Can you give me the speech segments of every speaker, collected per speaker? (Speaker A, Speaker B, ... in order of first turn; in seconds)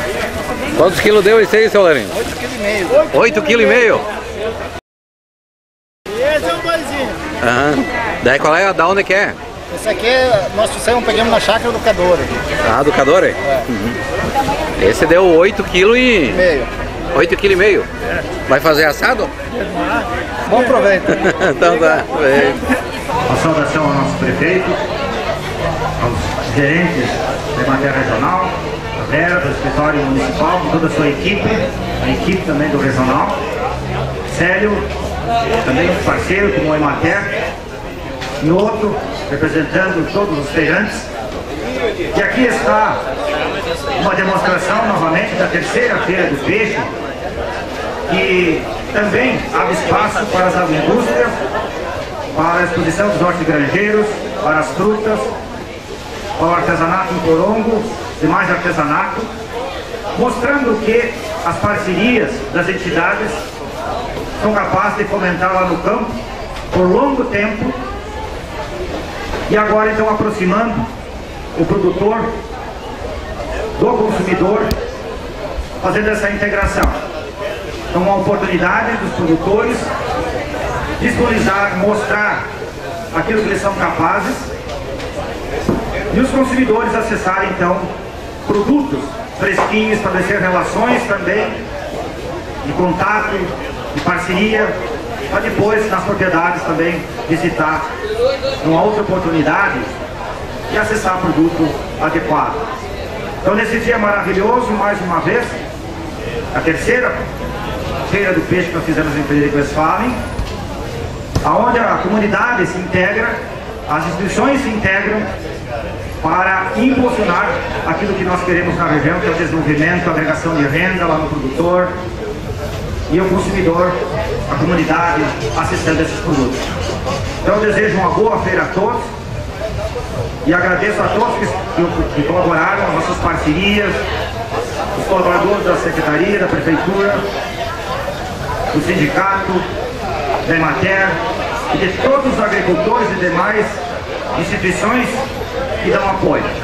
Speaker A: 0.7-2.2, 3.0-4.0, 7.4-9.3, 12.5-14.0, 14.8-16.5, 17.1-17.9, 18.4-19.3, 20.5-22.6
Speaker B: 2.3-3.0, 6.3-7.1, 9.7-12.4
Speaker C: 23.3-24.8, 26.0-33.4, 34.3-34.8, 35.6-37.3, 38.4-41.1, 42.1-43.0, 44.0-46.9, 48.1-51.3, 52.3-55.3, 56.4-59.3, 60.1-63.4, 64.4-66.1, 66.7-67.8, 69.5-70.8, 71.5-72.3, 73.8-74.7, 75.8-76.9, 77.9-79.9, 81.0-82.4, 83.1-84.5, 86.1-87.9, 88.4-91.6, 92.6-94.7, 95.3-97.8, 98.6-99.9, 100.7-102.6, 103.4-105.5, 106.5-107.2, 108.0-110.2, 111.4-113.3, 113.9-115.3, 116.2-121.9, 123.1-124.0, 124.5-126.6, 127.4-129.1, 130.4-134.0, 134.9-137.2, 138.7-139.6, 140.4-141.2, 141.7-143.8, 144.3-145.2, 145.8-146.5